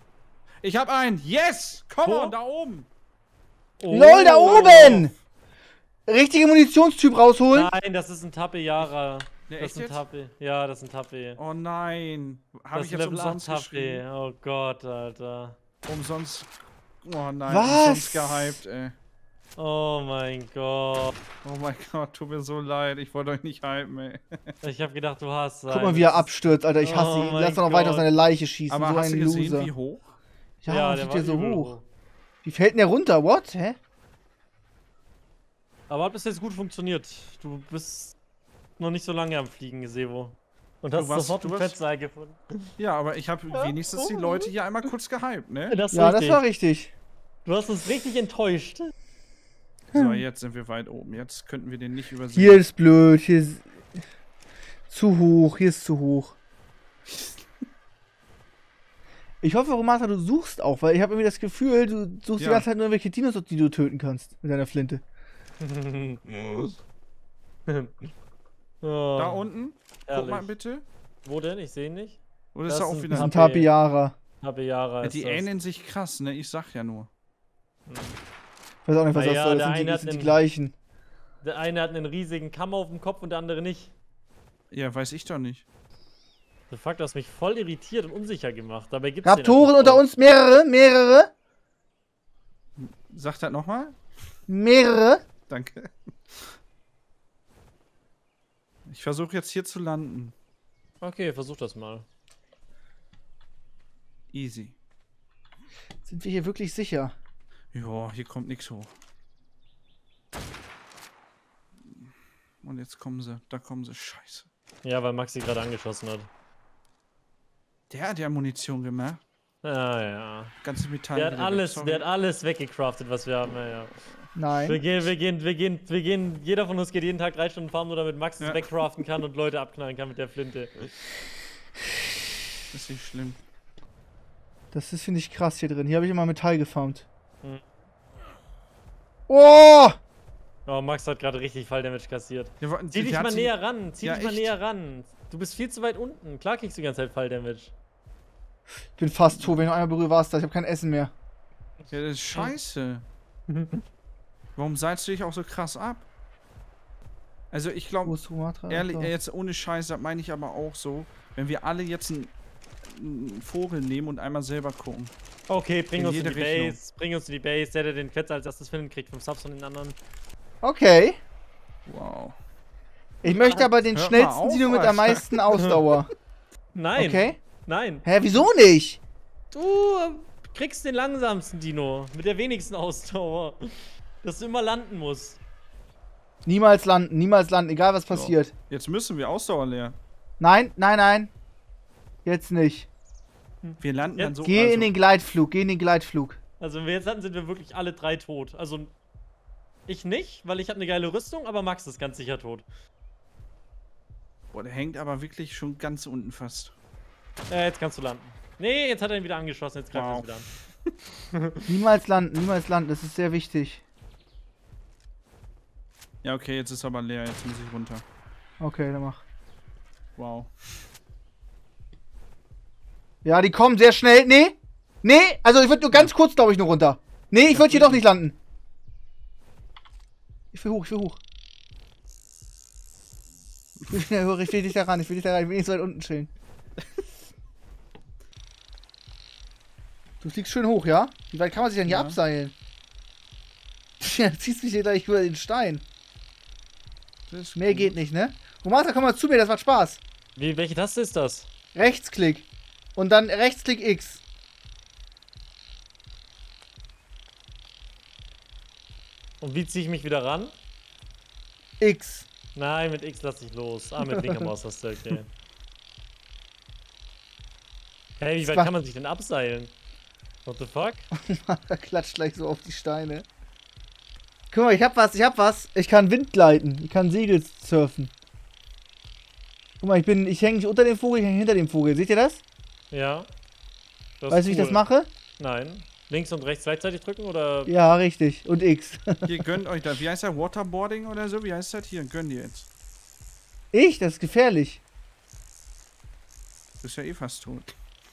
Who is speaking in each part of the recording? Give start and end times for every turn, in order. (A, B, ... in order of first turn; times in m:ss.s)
0:00.6-0:02.9 A
0:02.0-0:02.3 B
0:03.8-0:05.1 B
0:03.9-0:05.1 C
0:06.1-0:07.7 C
0:07.5-0:11.4 B
0:09.5-0:10.0 A
0:11.4-0:14.0 A
0:12.8-0:15.6 B
0:15.9-0:16.5 A
0:17.0-0:19.0 A
0:17.5-0:18.6 C
0:19.6-0:21.2 B
0:21.4-0:24.6 A
0:24.6-0:28.1 B
0:25.7-0:29.7 C
0:28.7-0:30.2 A
0:30.6-0:31.8 C
0:30.7-0:31.8 B
0:32.4-0:33.8 C
0:35.9-0:38.2 B
0:38.8-0:42.7 B
0:41.0-0:41.8 A
0:42.8-0:45.8 A
0:43.5-0:44.5 B
0:45.7-0:46.4 B
0:45.9-0:46.9 C
0:47.4-0:48.9 B
0:49.9-0:50.2 C
0:49.9-0:52.6 A
0:52.3-0:53.7 C
0:54.9-0:56.4 C
0:57.1-0:57.4 A
0:59.4-1:05.0 C
1:02.4-1:02.7 A
1:05.6-1:06.7 B
1:07.7-1:08.1 B
1:08.8-1:09.4 B
1:09.2-1:10.8 A
1:10.1-1:10.5 B
1:11.2-1:13.7 B
1:12.5-1:13.3 A
1:13.1-1:14.2 C
1:14.4-1:15.4 B
1:15.0-1:17.1 A
1:17.9-1:18.2 B
1:18.8-1:20.7 C
1:19.2-1:20.4 B
1:21.4-1:23.9 B
1:24.7-1:25.6 A
1:26.7-1:30.0 B
1:29.2-1:31.3 C
1:32.8-1:34.0 A
1:34.5-1:35.2 C
1:35.5-1:36.6 A
1:38.9-1:40.4 A
1:41.0-1:42.1 B
1:44.3-1:44.8 A
1:46.0-1:47.1 C
1:47.7-1:48.9 A
1:52.6-1:54.5 A
1:54.8-1:56.3 B
1:57.9-1:59.2 A
1:59.6-2:00.5 B
2:00.6-2:02.1 A
2:01.2-2:04.0 B
2:04.4-2:04.8 C
2:04.6-2:10.9 B
2:08.4-2:08.7 A
2:12.7-2:13.4 A
2:14.7-2:17.1 C
2:19.3-2:20.0 C
2:20.7-2:27.7 B
2:22.6-2:24.5 A
2:29.0-2:31.1 C
2:29.3-2:29.6 A
2:31.9-2:33.1 A
2:33.5-2:33.8 B
2:34.6-2:36.1 A
2:37.5-2:38.2 A
2:38.0-2:39.1 C
2:38.7-2:42.3 A
2:42.8-2:45.1 A
2:45.5-2:50.0 B
2:46.0-2:46.8 A
2:50.6-2:51.2 C
2:51.9-2:52.4 A
2:53.2-2:53.7 B
2:53.2-2:56.1 C
2:53.9-2:55.4 A
2:56.7-2:58.0 B
2:57.0-2:57.4 C
2:58.0-2:59.0 C
2:59.5-3:05.4 B
3:06.5-3:08.5 C
3:08.1-3:10.0 A
3:10.4-3:11.3 C
3:12.2-3:12.9 C
3:13.6-3:14.4 B
3:13.8-3:14.9 A
3:14.4-3:16.4 C
3:16.6-3:18.9 B
3:19.9-3:22.6 B
3:24.5-3:26.8 A
3:27.5-3:30.5 B
3:29.9-3:30.3 A
3:31.3-3:31.7 B
3:31.7-3:33.8 C
3:36.2-3:38.0 A
3:38.6-3:39.2 C
3:40.2-3:40.5 A
3:43.2-3:48.4 C
3:47.5-3:48.0 A
3:50.5-3:51.2 C
3:53.9-3:56.3 C
4:00.2-4:02.5 C
4:01.8-4:02.2 A
4:04.0-4:05.8 C
4:07.3-4:08.0 A
4:07.6-4:10.0 C
4:10.4-4:11.5 B
4:11.8-4:14.2 C
4:19.4-4:20.5 B
4:21.8-4:22.3 C
4:22.6-4:25.3 B
4:24.0-4:24.5 C
4:28.2-4:29.7 B
4:28.4-4:28.7 C
4:30.4-4:31.1 B
4:31.2-4:33.3 C
4:34.5-4:38.1 C
4:39.8-4:42.4 C
4:42.9-4:43.3 B
4:44.2-4:44.8 B
4:44.3-4:45.1 C
4:45.4-4:47.7 B
4:47.7-4:49.3 C
4:49.2-4:52.7 A
4:53.7-4:54.8 C
4:56.8-4:57.7 A